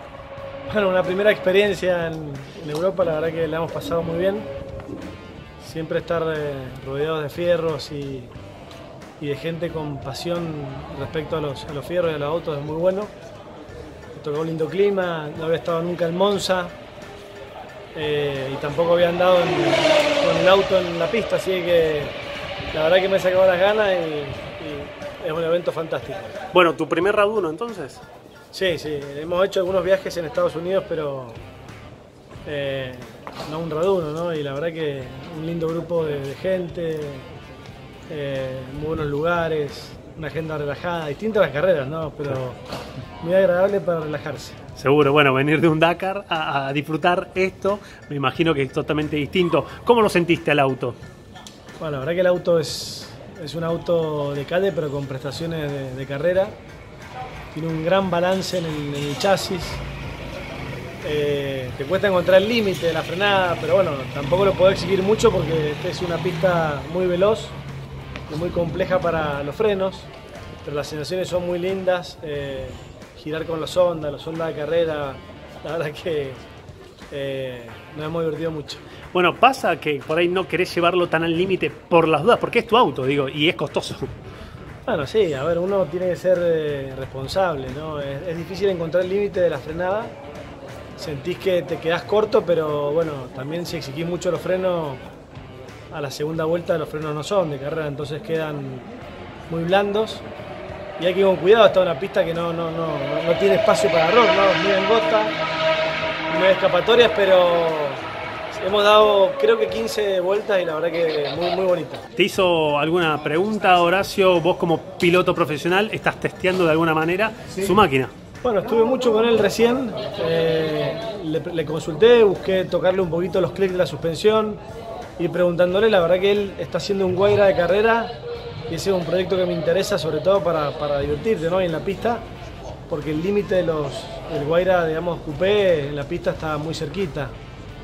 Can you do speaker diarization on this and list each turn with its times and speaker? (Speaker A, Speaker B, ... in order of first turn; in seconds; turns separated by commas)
Speaker A: 0.7-4.5, Speaker A: 5.6-8.3, Speaker A: 9.2-13.1, Speaker A: 14.1-16.7, Speaker A: 17.9-22.1, Speaker A: 22.7-26.3, Speaker B: 26.5-28.0, Speaker A: 28.5-31.4, Speaker A: 32.5-37.3, Speaker A: 38.1-42.6, Speaker A: 43.2-44.6, Speaker B: 44.8-51.0, Speaker A: 51.8-56.5, Speaker A: 57.5-59.8, Speaker A: 61.0-67.6, Speaker A: 68.3-70.1, Speaker A: 70.6-76.4, Speaker A: 77.1-78.8, Speaker B: 79.1-84.1, Speaker A: 84.8-90.1, Speaker A: 91.0-95.0, Speaker A: 95.9-98.9, Speaker A: 99.5-100.2, Speaker A: 101.0-105.4, Speaker A: 106.3-112.0, Speaker B: 112.2-118.1, Speaker A: 118.4-124.6, Speaker A: 125.2-128.2, Speaker A: 128.7-132.2, Speaker A: 132.9-137.3